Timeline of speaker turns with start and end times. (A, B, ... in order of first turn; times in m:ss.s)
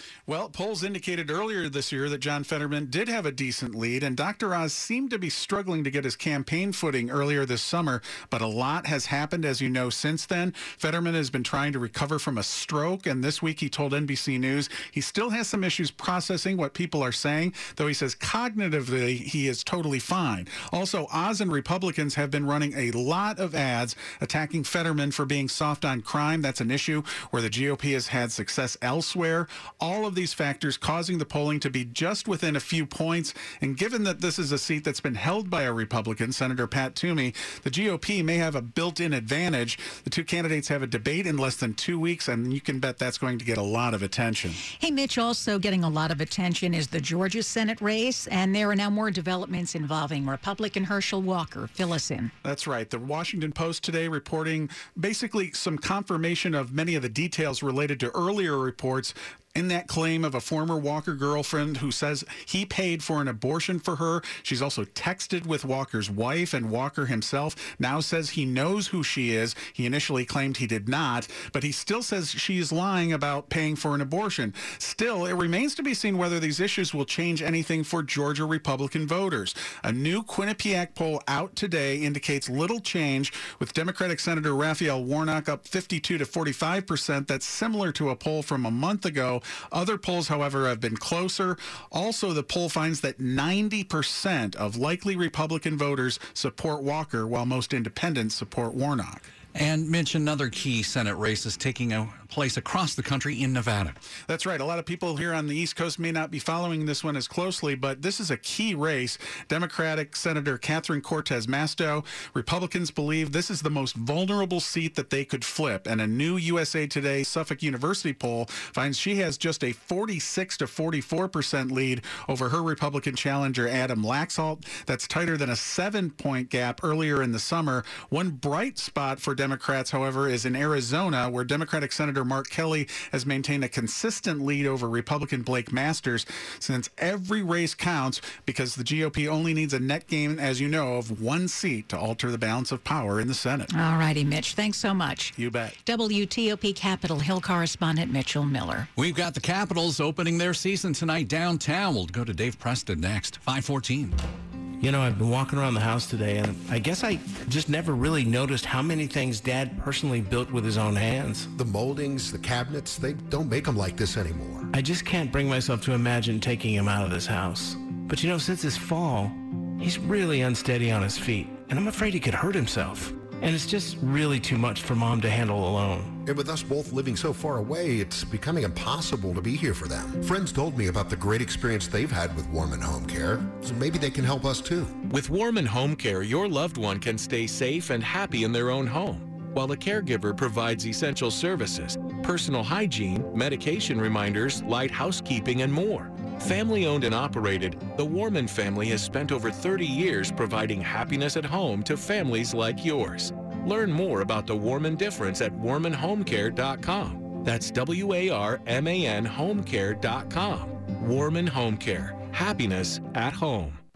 0:00.3-0:44.6 A
0:44.7-0:52.3 B
0:52.4-1:39.2 A
1:39.5-1:44.0 C
1:44.3-2:23.7 A
2:23.7-2:25.3 B
2:25.4-2:25.8 A
2:25.8-2:28.9 B
2:29.0-2:34.2 C
2:34.8-2:41.5 D
2:41.5-2:44.7 E
2:44.7-2:56.2 D
2:56.2-3:05.0 E
3:05.0-3:33.8 F